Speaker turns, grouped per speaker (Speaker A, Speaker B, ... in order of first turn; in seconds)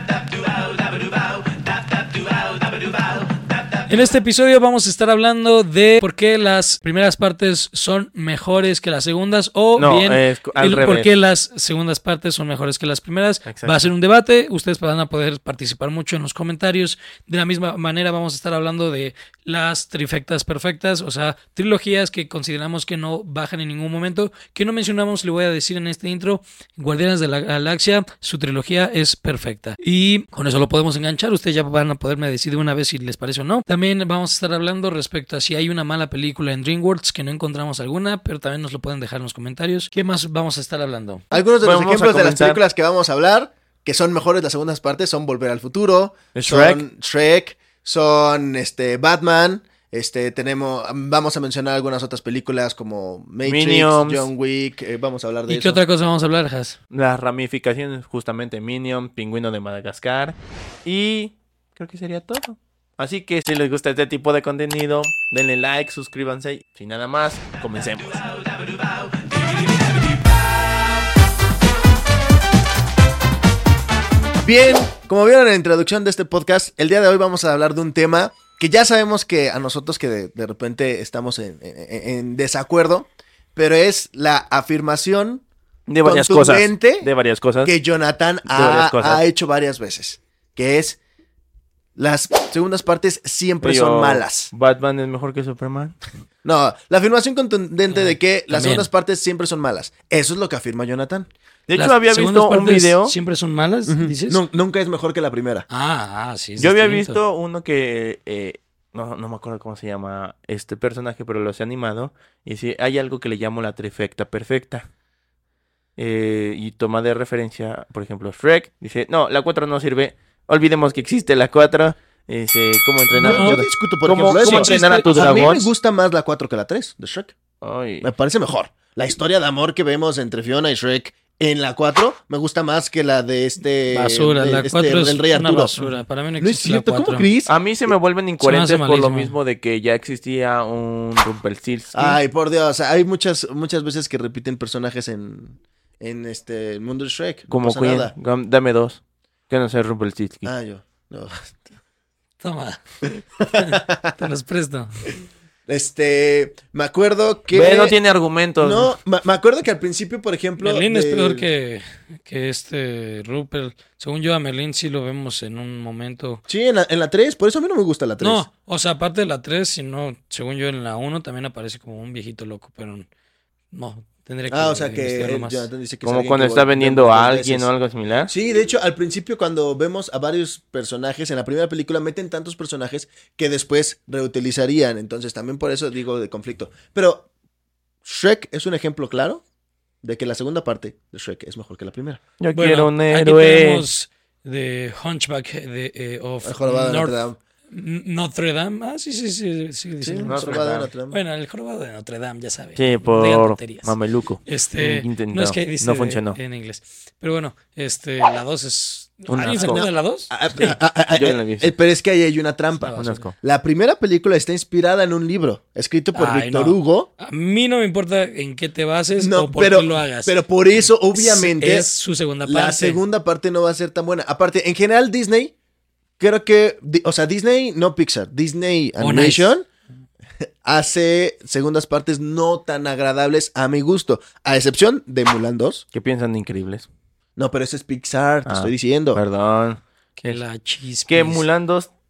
Speaker A: 0.7-1.0, 9.8-11.1, 13.4-13.9, 41.6-42.6, 46.3-46.8, 53.4-54.3, 56.9-68.2, 85.9-87.7, 88.5-89.2, 93.6-96.0, 101.7-103.1, 106.6-114.8, 116.0-125.7, 127.6-128.1, 137.4-142.2, 147.5-150.5, 157.5-158.9, 176.0-178.3, 192.4-193.8, 200.2-200.9, 202.8-206.4, 209.3-209.9, 210.6-211.7, 212.9-213.3, 235.9-236.9, 238.4-240.4, 241.1-241.9
Speaker B: 3.9-41.2, 55.5-56.8, 97.9-98.9, 101.7-104.4, 105.7-107.2, 123.2-123.6, 124.4-125.1, 133.9-137.3, 138.4-139.3, 152.4-155.1, 160.6-166.4, 168.2-173.1, 173.7-175.6, 192.5-197.2, 197.7-203.9, 204.4-210.6, 212.8-213.2, 216.1-220.4, 221.1-223.0, 229.0-229.5, 240.2-241.4
Speaker C: 41.3-55.8, 74.4-85.4, 86.0-87.1, 87.6-91.0, 92.0-94.5, 96.4-101.3, 103.8-105.7, 123.2-127.3, 128.0-135.8, 136.4-137.5, 141.9-148.1, 150.4-151.6, 153.4-154.2, 155.7-157.9, 158.6-161.4, 166.5-168.4, 174.5-177.7, 178.3-187.3, 188.0-189.4, 190.0-192.2, 196.4-197.4, 200.0-201.2, 209.5-217.1, 219.2-221.9, 222.4-225.5, 226.2-229.7, 230.4-235.8, 237.4-239.2